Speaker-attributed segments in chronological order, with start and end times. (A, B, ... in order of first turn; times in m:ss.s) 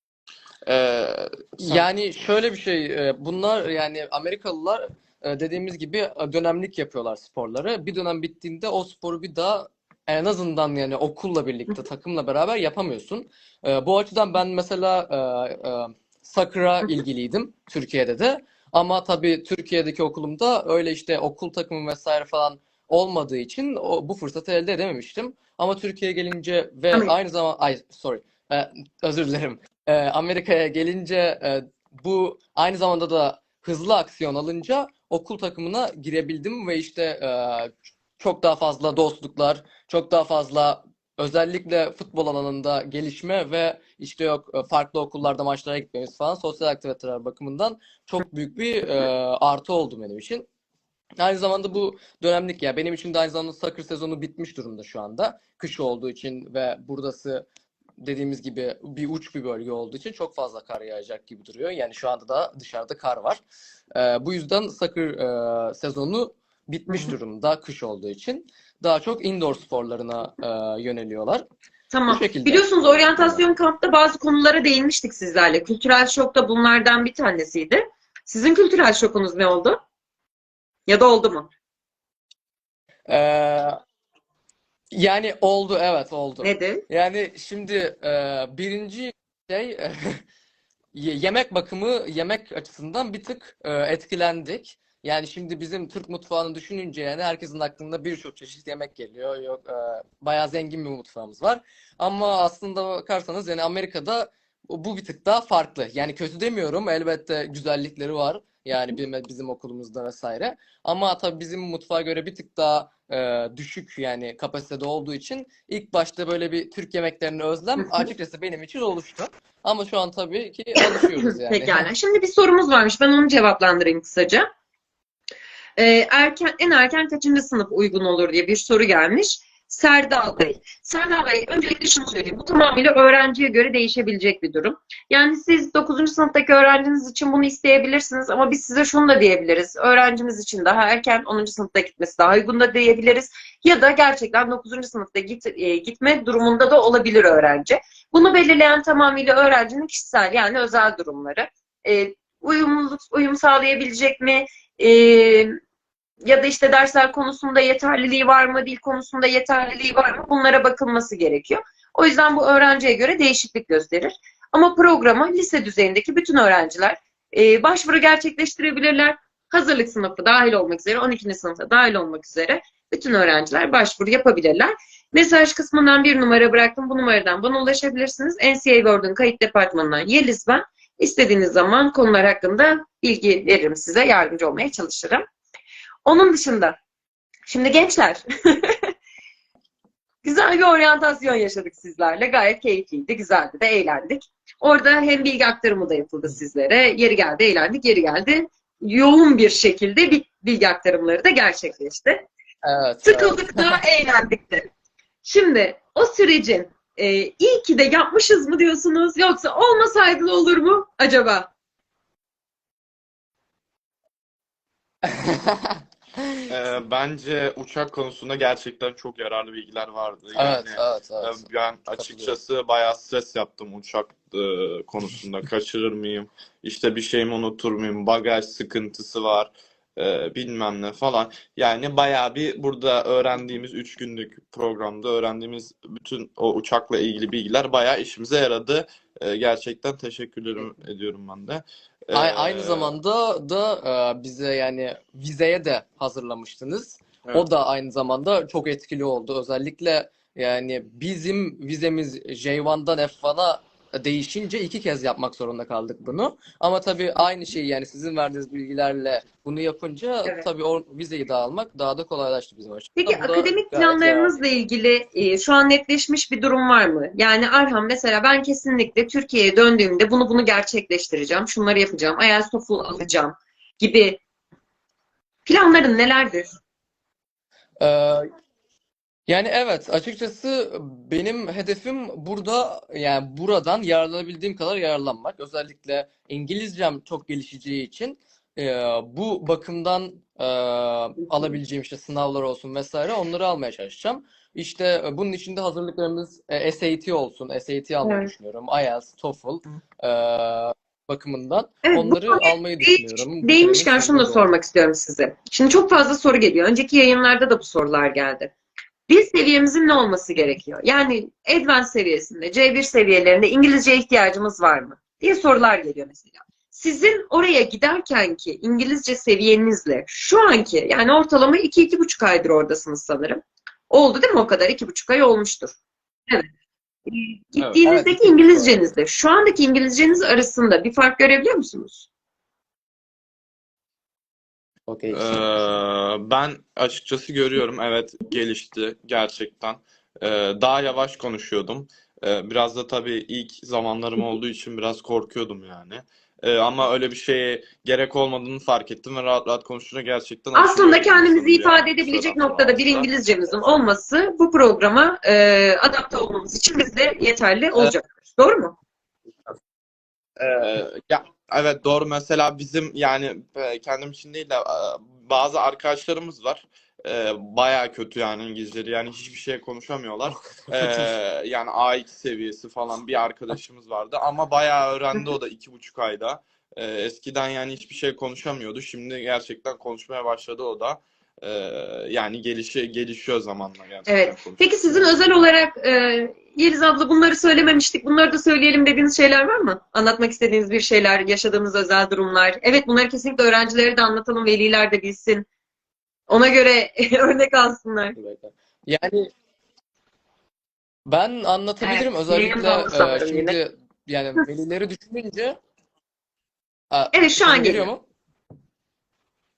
0:00.6-0:01.9 A
0:01.6-0:50.5 B
0:51.2-0:57.4 B
0:58.0-1:03.4 B
1:04.0-1:11.5 B
1:06.9-1:07.2 C
1:11.9-1:19.8 C
1:12.1-1:13.4 B
1:20.9-1:21.5 C
1:23.1-1:23.8 B
1:24.9-1:30.2 B
1:26.4-1:26.8 C
1:30.9-2:01.8 B
2:00.8-2:04.5 C
2:05.8-2:35.6 C
2:36.2-3:05.3 C
3:06.1-3:06.8 C
3:07.5-3:08.9 C
3:10.2-3:22.3 C
3:22.6-3:23.7 B
3:23.0-3:24.7 C
3:25.2-3:31.5 C
3:35.0-3:35.8 B
3:36.5-4:03.0 A
3:40.4-3:42.4 B
4:02.1-4:24.4 B
4:23.0-4:34.2 C
4:35.5-4:36.6 C
4:37.8-4:38.3 B
4:39.3-5:04.5 B
4:58.0-4:58.3 C
5:01.8-5:08.5 C
5:09.1-5:25.7 C
5:27.1-5:32.1 C
5:27.6-5:27.8 A
5:27.8-5:28.8 B
5:34.9-5:35.6 B
5:35.1-5:53.9 A
5:50.6-5:58.8 C
6:00.4-6:25.3 A
6:24.1-6:35.5 C
6:36.3-6:38.2 C
6:38.2-6:39.3 B
6:41.1-6:45.6 B
6:41.8-6:43.6 C
6:46.9-6:48.0 B
6:47.1-6:47.9 C